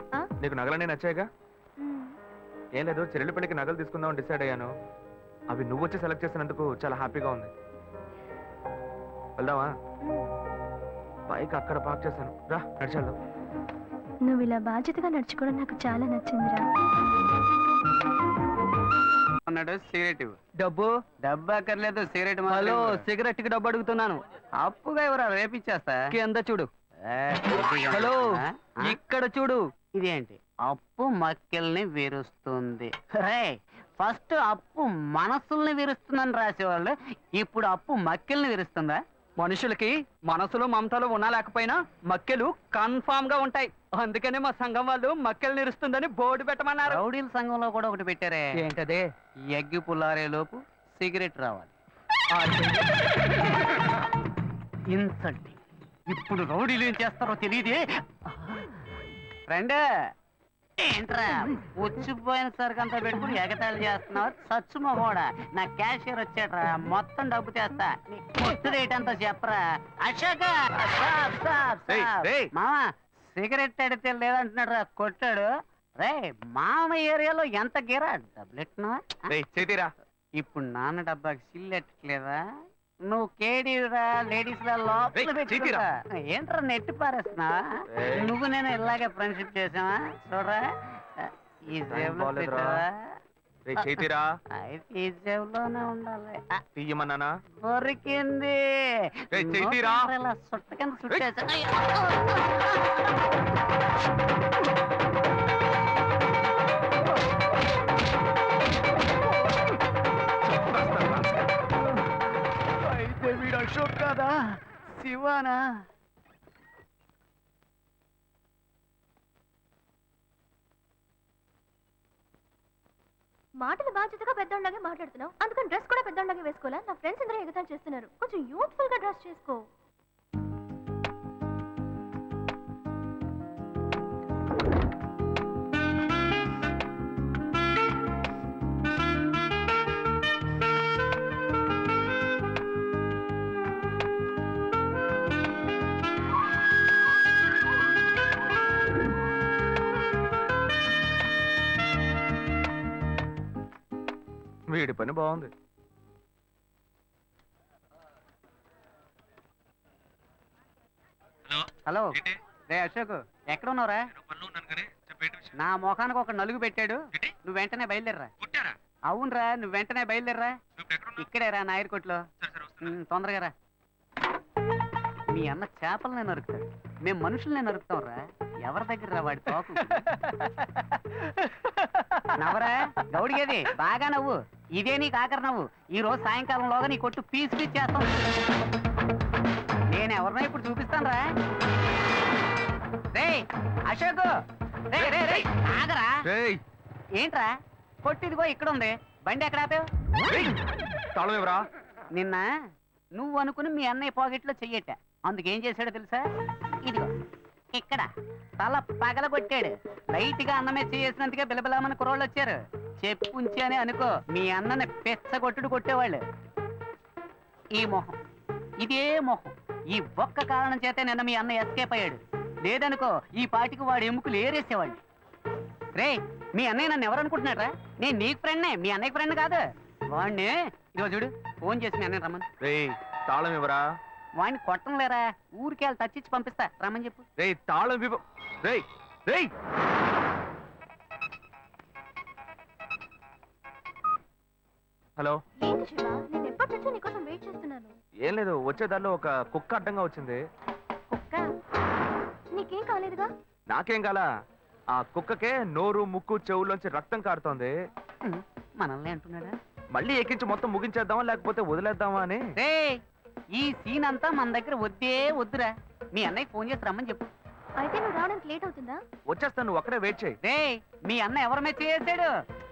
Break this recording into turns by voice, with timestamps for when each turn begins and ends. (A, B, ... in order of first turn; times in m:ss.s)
0:00.4-0:01.3 A
0:01.8-0:02.1 B
0:02.8-0:04.7 A
0:05.5-0:07.5 A
0:09.4-0:09.7 A
0:11.3-0:13.2 A
0:14.2-0:16.6 B
0:19.5-0:20.4 C
0:20.6-0:21.0 D
0:21.2-0:23.0 C
0:22.5-0:24.2 D
0:24.6-0:26.0 C
0:26.1-0:26.7 D
0:27.1-0:29.0 C
0:27.9-0:29.7 D
0:30.0-0:39.0 C
0:39.4-0:47.0 D
0:46.9-0:48.5 C
0:48.6-0:49.1 D
0:49.5-0:51.7 C
0:52.3-0:52.8 D
0:54.9-0:55.6 C
0:56.1-0:58.7 C
0:59.5-0:59.8 C
1:00.8-1:15.5 C
1:11.9-1:12.5 A
1:16.0-1:19.2 C
1:19.3-1:19.9 A
1:20.4-1:22.4 C
1:23.1-1:30.6 C
1:25.1-1:25.8 A
1:27.9-1:28.3 A
1:31.2-1:33.0 C
1:31.8-1:32.8 A
1:33.6-1:34.2 A
1:34.6-1:36.6 C
1:36.8-1:37.3 A
1:37.6-1:42.7 C
1:39.3-1:40.0 A
1:50.4-1:51.5 A
1:52.9-1:54.3 C
1:55.0-1:55.6 C
2:03.6-2:09.6 B
2:34.7-2:35.5 A
2:41.9-2:44.1 C
2:44.2-2:45.5 A
2:45.6-2:48.3 C
2:48.4-2:48.7 A
2:49.1-2:50.6 C
2:50.8-2:51.1 A
2:51.1-2:52.2 C
2:52.4-2:52.9 A
2:52.8-2:53.5 C
2:55.3-3:00.1 C
3:02.4-3:08.1 C
3:09.9-3:11.2 C
3:13.1-3:14.3 C
3:14.9-3:16.2 C
3:16.3-3:16.6 A
3:17.2-3:17.5 C
3:18.0-3:19.8 C
3:20.3-3:20.5 A
3:21.1-3:21.6 A
3:22.2-3:22.4 C
3:23.2-3:26.2 C
3:26.8-3:27.1 C
3:27.7-3:28.1 C
3:28.6-3:36.2 C
3:37.8-3:38.2 C
3:38.8-3:45.0 C
3:45.9-3:52.4 C
3:52.6-3:53.8 A
3:54.4-3:57.2 C
3:57.4-3:59.5 A
4:05.6-4:07.9 B
4:08.2-4:10.4 A
4:11.1-4:11.4 B
4:12.5-4:13.3 B
4:13.7-4:14.2 A
4:15.0-4:17.7 A
4:18.2-4:19.5 C
4:19.9-4:22.4 A
4:22.6-4:23.0 C
4:23.6-4:27.3 C
4:27.8-4:29.0 B
4:29.3-4:30.4 A
4:30.4-4:32.3 C